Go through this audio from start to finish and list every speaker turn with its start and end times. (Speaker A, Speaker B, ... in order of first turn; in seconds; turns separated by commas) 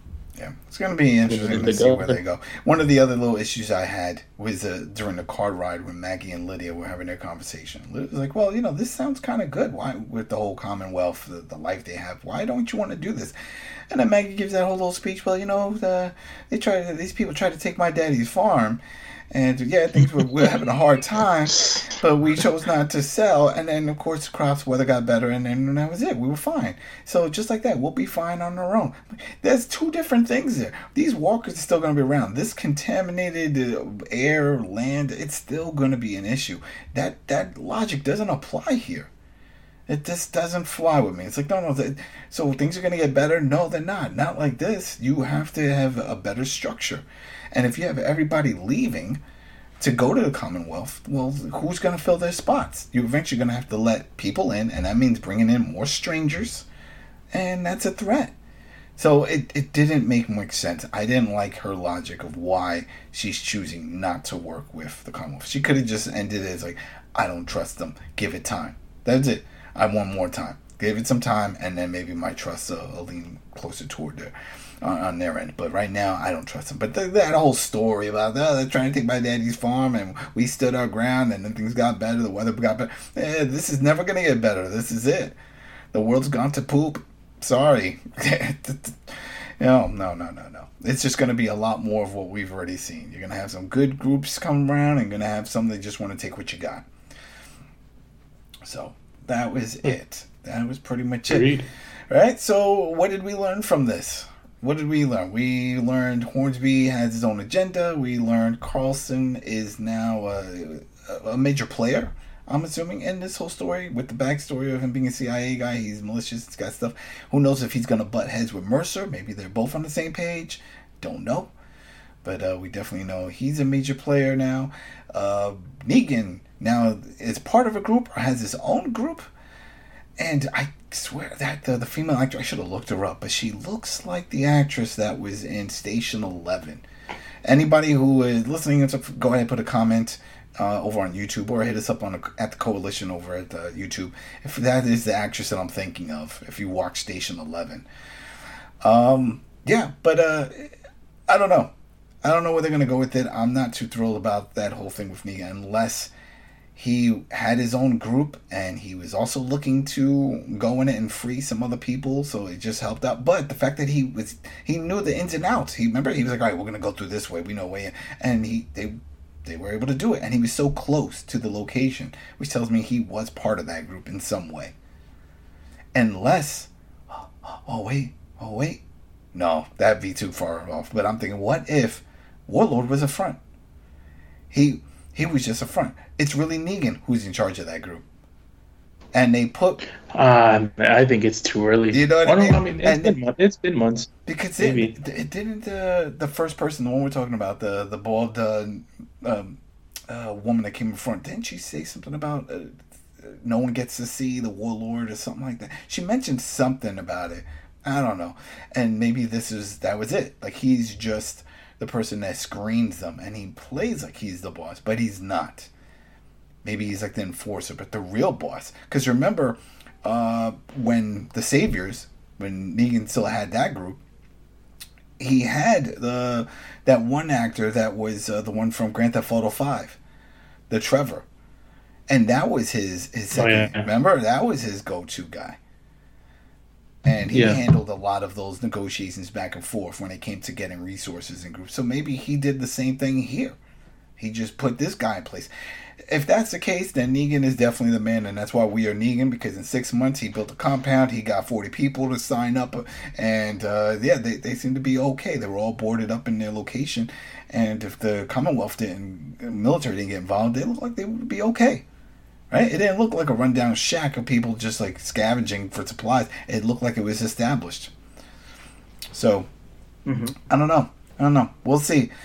Speaker A: 0.3-13.3, Speaker B: 1.3-2.2, Speaker A: 13.9-39.1, Speaker A: 39.9-49.2, Speaker A: 49.8-56.7, Speaker A: 57.3-58.3, Speaker A: 59.0-85.3, Speaker A: 85.9-96.9, Speaker A: 98.6-101.5, Speaker B: 101.3-101.7, Speaker A: 102.1-121.5, Speaker A: 122.2-129.3, Speaker A: 130.2-136.8, Speaker A: 137.4-147.9, Speaker A: 148.8-150.7, Speaker A: 151.3-156.1, Speaker A: 156.7-174.7, Speaker A: 175.9-178.8, Speaker A: 179.3-183.4, Speaker A: 184.5-188.0, Speaker A: 189.1-189.8, Speaker B: 190.1-194.9, Speaker A: 191.9-193.2, Speaker A: 194.2-215.7, Speaker A: 216.6-224.0, Speaker A: 225.2-230.0, Speaker A: 230.7-231.2, Speaker A: 232.1-235.6, Speaker B: 233.3-233.9, Speaker A: 237.0-243.6, Speaker B: 237.3-237.6, Speaker A: 244.2-245.5, Speaker A: 246.1-261.8, Speaker A: 262.5-267.9, Speaker A: 269.1-269.5, Speaker B: 270.1-270.3, Speaker A: 270.3-272.1